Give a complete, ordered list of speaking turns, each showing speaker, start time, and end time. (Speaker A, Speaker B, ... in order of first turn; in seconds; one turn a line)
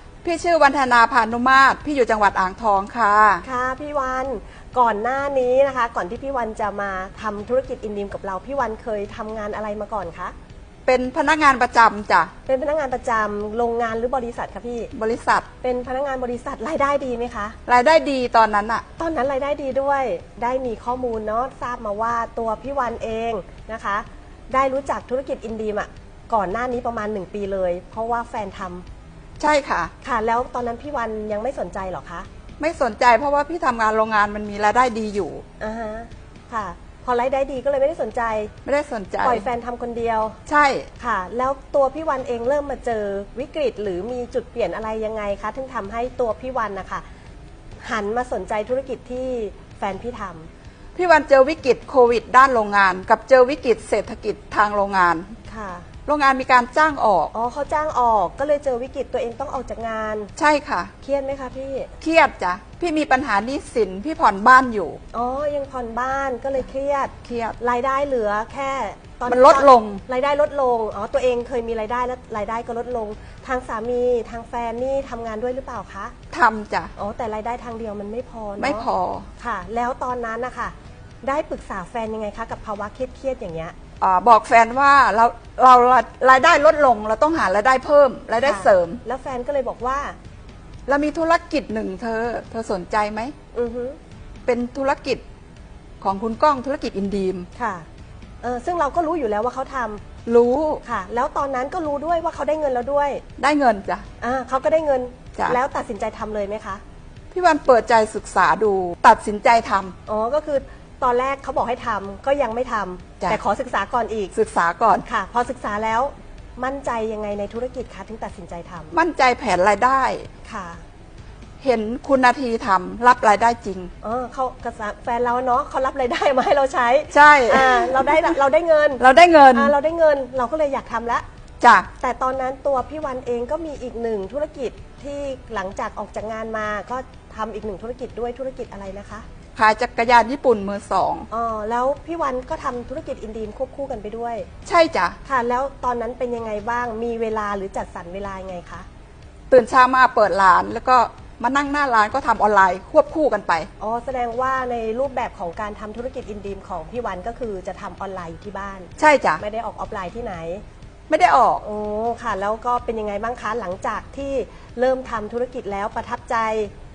Speaker A: 0.2-3.4
Speaker B: 3.4-10.3
Speaker A: 10.8-12.3
Speaker B: 12.4-14.9
Speaker A: 14.9-15.5
Speaker B: 15.6-17.6
Speaker A: 17.6-18.8
Speaker B: 19.0-28.8
Speaker A: 29.4-29.9
Speaker B: 30.0-32.3
Speaker A: 32.6-35.4
Speaker B: 35.6-38.5
Speaker A: 38.6-39.4
Speaker B: 39.2-40.4
Speaker A: 40.5-40.9
Speaker B: 41.0-47.0
Speaker B: 47.8-50.5
Speaker A: 50.9-55.3
Speaker B: 55.5-55.9
Speaker A: 56.0-57.3
Speaker B: 57.3-60.3
Speaker A: 60.4-60.9
Speaker B: 61.0-61.9
Speaker A: 62.0-65.0
Speaker B: 65.1-76.1
Speaker A: 67.2-67.5
Speaker A: 69.3-70.0
Speaker A: 76.3-76.9
Speaker B: 77.0-78.8
Speaker A: 78.6-79.3
Speaker B: 79.4-83.7
Speaker A: 84.0-89.0
Speaker B: 88.4-90.2
Speaker A: 90.9-93.3
Speaker B: 93.5-94.0
Speaker A: 94.5-95.2
Speaker A: 96.0-97.5
Speaker B: 97.5-97.8
Speaker B: 98.4-100.0
Speaker A: 100.2-100.8
Speaker B: 100.8-103.2
Speaker A: 103.4-104.0
Speaker B: 104.2-106.8
Speaker A: 107.3-109.9
Speaker B: 110.0-114.3
Speaker A: 114.3-115.0
Speaker B: 115.0-118.9
Speaker A: 118.9-120.3
Speaker B: 120.4-120.8
Speaker A: 121.6-123.9
Speaker B: 124.0-131.2
Speaker A: 127.1-128.3
Speaker A: 129.0-129.7
Speaker A: 131.6-131.9
Speaker B: 132.0-139.2
Speaker A: 139.6-141.3
Speaker B: 141.3-144.5
Speaker A: 144.7-145.2
Speaker B: 145.2-148.8
Speaker A: 149.5-153.7
Speaker B: 153.8-160.6
Speaker A: 159.0-159.4
Speaker A: 161.1-161.6
Speaker B: 161.6-166.7